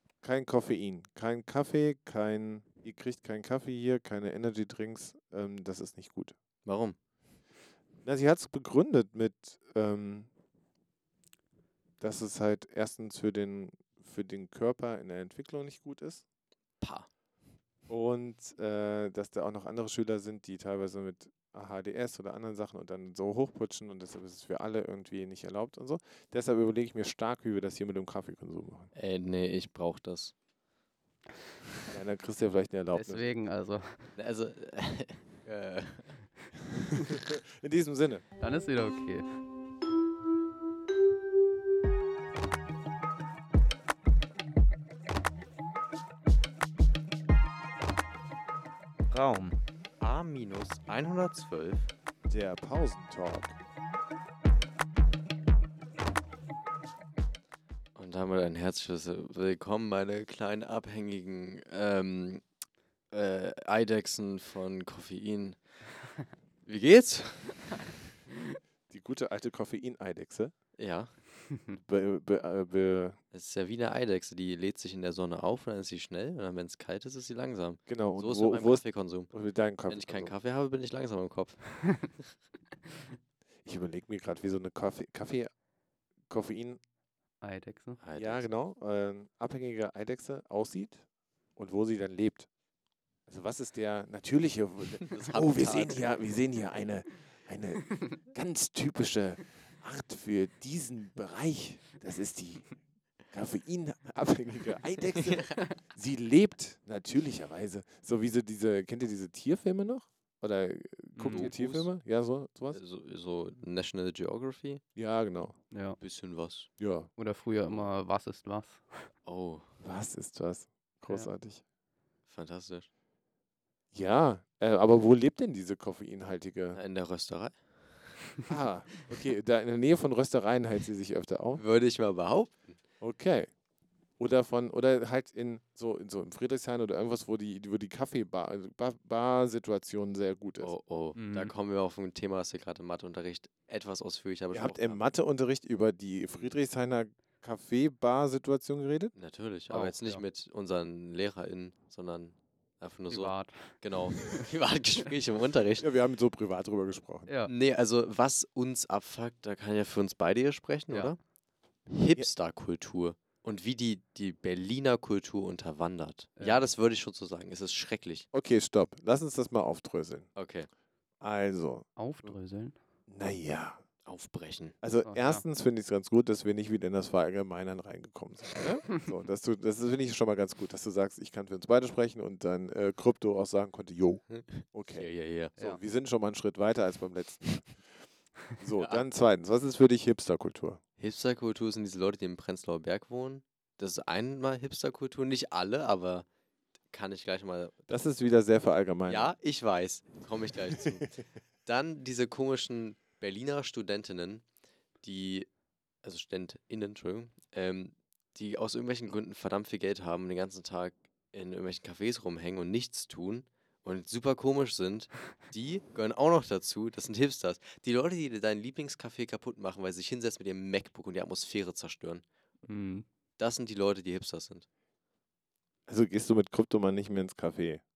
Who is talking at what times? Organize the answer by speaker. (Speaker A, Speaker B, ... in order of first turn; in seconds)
Speaker A: 0.2-6.3, 8.0-10.3, 12.0-16.2, 17.9-28.9, 31.9-33.3, 37.0-38.2, 52.3-53.6, 68.9-70.5, 71.8-73.2, 77.9-80.3, 83.6-85.5, 86.3-86.8, 88.2-91.0, 91.6-92.5, 93.3-102.7, 103.3-112.8, 115.0-115.5, 116.8-117.1, 119.8-121.6, 123.9-126.8, 128.5-131.6, 133.0-133.5, 134.2-140.7, 144.5-149.1, 155.8-157.3, 168.3-170.3, 171.2-172.3, 173.1-173.8, 174.8-187.8, 188.6-190.8, 197.9-199.3, 200.7-201.0, 225.9-227.8
Speaker B: 6.6-7.0, 16.8-17.1, 28.9-30.3, 34.1-36.1, 50.0-51.9, 58.0-62.4, 63.1-65.6, 66.7-67.8, 70.8-71.1, 73.3-79.3, 79.9-81.6, 88.0-88.4, 95.0-96.1, 111.3-111.9, 112.7-114.8, 116.0-116.7, 119.2-119.7, 122.3-122.9, 126.7-127.6, 131.6-132.8, 140.6-145.0, 149.1-155.9, 157.4-161.2, 161.9-168.3, 170.3-170.7, 174.1-174.8, 184.5-185.5, 188.8-189.0, 191.0-196.3, 196.9-197.8, 199.1-204.4, 205.0-205.5, 206.0-222.2, 223.4-224.7
Speaker C: 32.9-34.1, 38.4-39.2, 49.1-49.5, 87.4-88.0, 111.2-111.5, 115.7-116.0, 117.2-119.1, 141.1-141.5, 149.7-150.2, 153.1-154.5, 157.3-157.5, 166.4-166.7, 172.0-172.8, 175.0-175.4, 222.6-223.0